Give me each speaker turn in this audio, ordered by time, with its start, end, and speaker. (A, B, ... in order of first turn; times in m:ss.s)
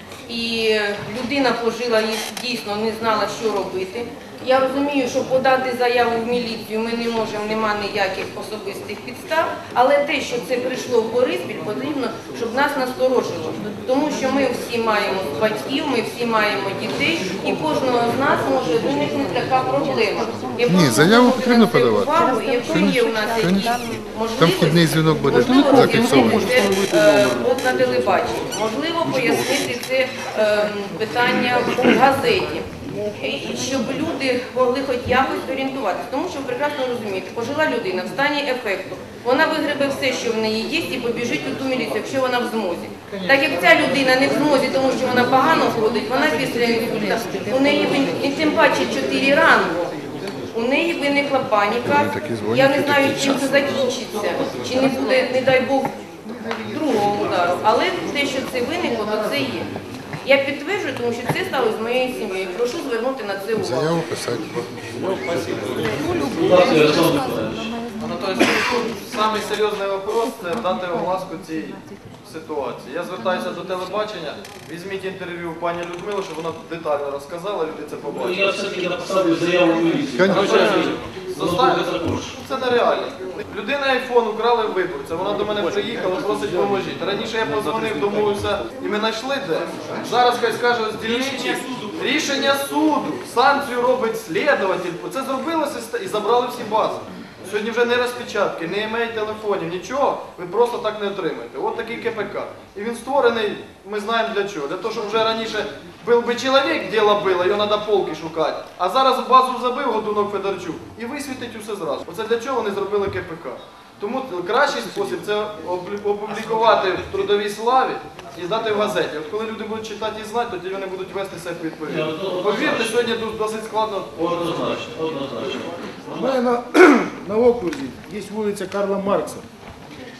0:00.3-0:49.9 A
0:20.7-0:22.1 B
0:22.7-0:23.7 B
0:24.4-0:26.5 B
0:25.4-0:27.4 C
0:50.5-0:55.9 A
0:51.9-0:53.6 B
0:56.6-0:59.7 A
1:00.2-1:04.0 A
1:03.6-1:05.9 B
1:06.2-1:07.7 C
1:08.0-1:18.5 D
1:18.1-1:22.4 C
1:20.2-2:04.1 D
1:31.3-1:31.9 C
2:01.9-2:03.0 C
2:04.1-2:06.4 C
2:06.1-2:09.4 E